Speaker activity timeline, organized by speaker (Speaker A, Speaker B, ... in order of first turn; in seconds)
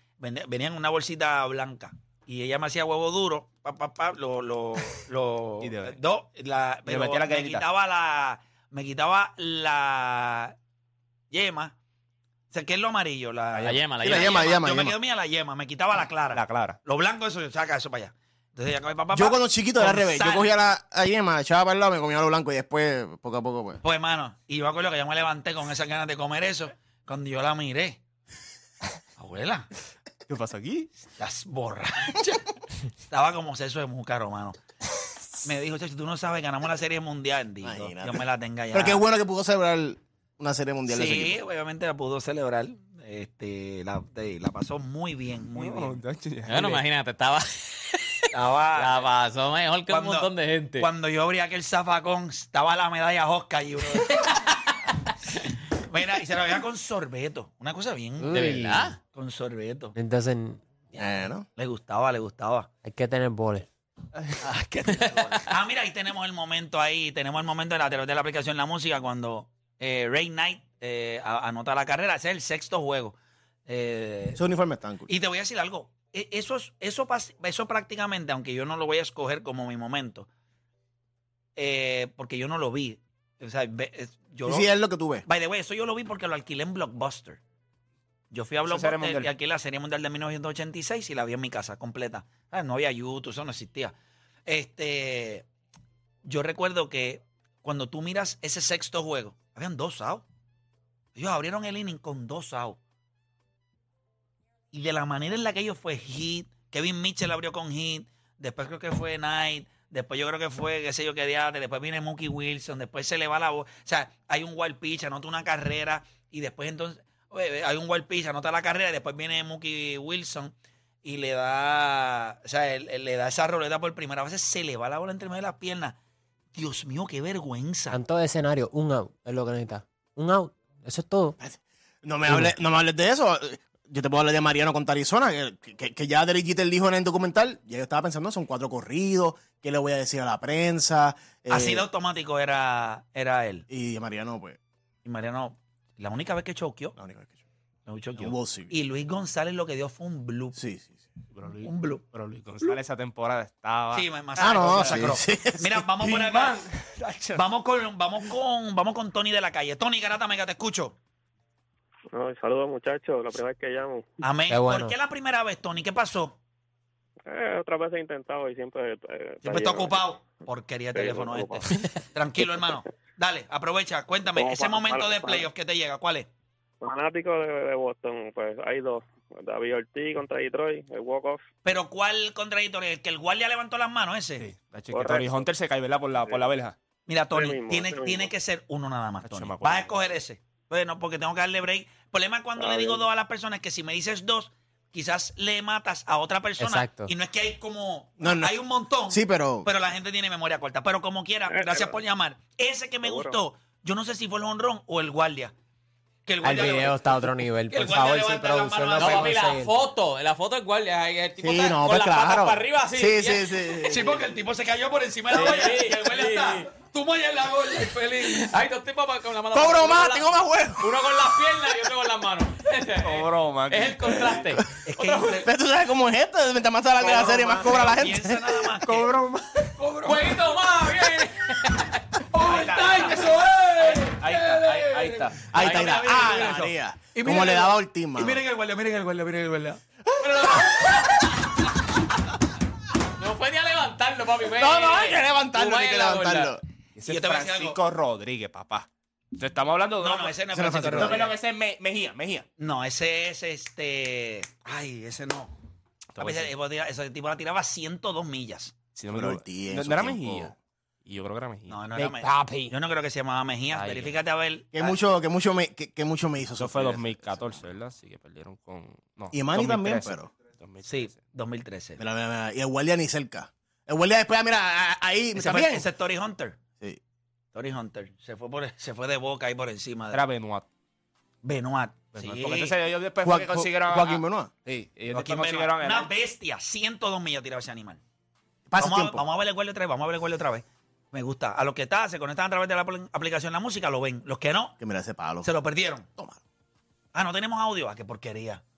Speaker A: 0.2-10.6, 11.3-11.8, 12.5-20.5, 23.8-28.0, 29.2-29.7, 31.2-32.4, 33.1-34.6, 35.4-39.0, 40.9-46.0, 48.3-49.0, 49.9-54.4, 55.4-58.5, 59.1-60.0, 61.6-62.7, 64.5-73.2, 73.7-74.4, 75.1-80.3, 81.6-84.7, 85.3-87.4, 88.3-93.9, 94.5-95.5, 96.2-100.2, 101.2-102.8, 104.7-120.5, 121.0-126.0, 126.5-128.0, 141.5-143.7, 145.1-146.9, 147.9-150.6, 151.6-152.1, 153.9-156.6, 157.3-160.9, 164.2-166.4, 169.4-176.3, 181.6-184.4, 187.1-205.5, 206.3-209.3, 213.9-218.5, 224.8-225.5, 227.0-229.1, 229.8-230.3, 232.3-239.8, 247.1-247.8, 250.0-251.4, 252.6-255.5, 256.2-258.8, 261.7-264.9, 270.9-272.0, 275.4-276.6, 277.5-280.2, 281.4-282.8, 285.1-288.0, 288.8-294.8, 295.4-296.1, 297.1-298.6
Speaker B: 5.6-6.0, 6.9-7.7, 16.3-16.8, 30.3-30.9, 45.5-46.8, 88.7-89.3, 151.3-155.2, 156.0-157.4, 184.4-186.8, 189.2-190.1, 223.0-224.6, 228.9-229.7, 232.4-233.1, 234.1-235.5, 247.0-252.5, 256.2-256.5, 258.9-261.8, 266.6-271.2, 280.1-280.7, 282.1-286.1
Speaker C: 13.6-14.6, 46.5-48.0, 48.7-50.9, 58.3-59.0, 208.9-214.2, 215.3-216.7, 218.2-225.4, 230.0-232.0, 235.6-236.6, 243.2-246.6
Speaker D: 14.0-15.0, 19.1-23.8, 37.6-41.4, 60.9-61.5, 74.4-75.1, 84.5-85.2, 131.4-141.9, 143.7-144.6, 147.0-147.4, 148.2-148.7, 150.5-151.1, 154.4-155.8, 198.2-198.5, 199.1-199.7, 211.4-214.1, 219.5-221.1, 225.4-228.7, 235.5-238.4, 244.6-246.6, 250.5-251.3, 259.1-260.5, 264.7-267.5, 269.3-270.3, 272.0-275.9, 283.2-284.5, 288.7-289.3, 294.8-295.5
Speaker E: 58.2-59.0, 60.0-60.7, 62.8-63.7, 127.9-131.4, 164.5-164.9, 196.6-197.1, 206.4-209.7, 262.0-262.7, 263.8-264.1
Speaker F: 162.1-164.1, 167.3-170.1, 170.9-171.8, 172.4-172.8, 174.3-175.5, 176.8-181.4, 184.9-185.4, 186.2-186.5, 187.3-188.3, 192.6-193.1, 201.5-202.0, 203.0-203.4